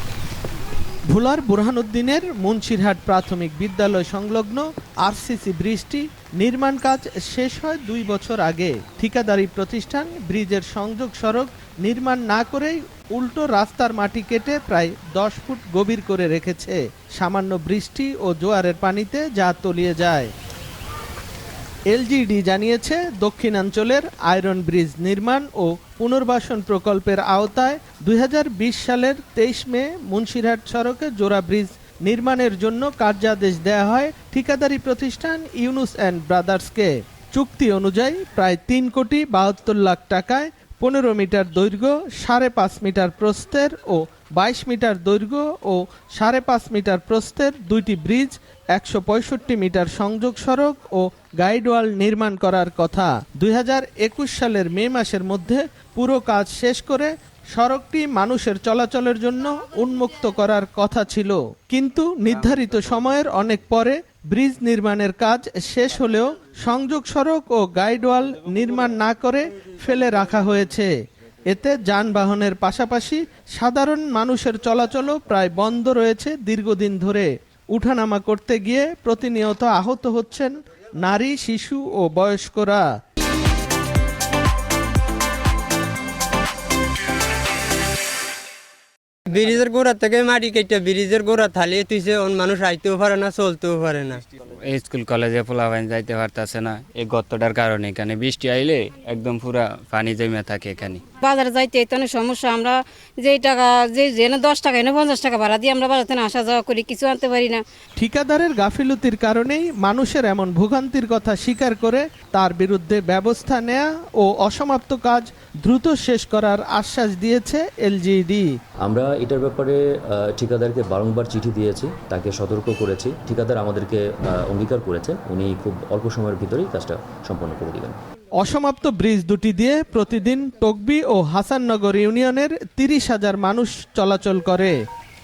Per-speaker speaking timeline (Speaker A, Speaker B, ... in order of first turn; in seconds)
Speaker A: 1.1-20.3, 21.9-70.9, 71.5-82.9, 108.0-118.5, 128.4-134.8
Speaker B: 89.3-94.2
Speaker C: 94.6-101.0
Speaker D: 101.2-107.6
Speaker E: 118.8-128.0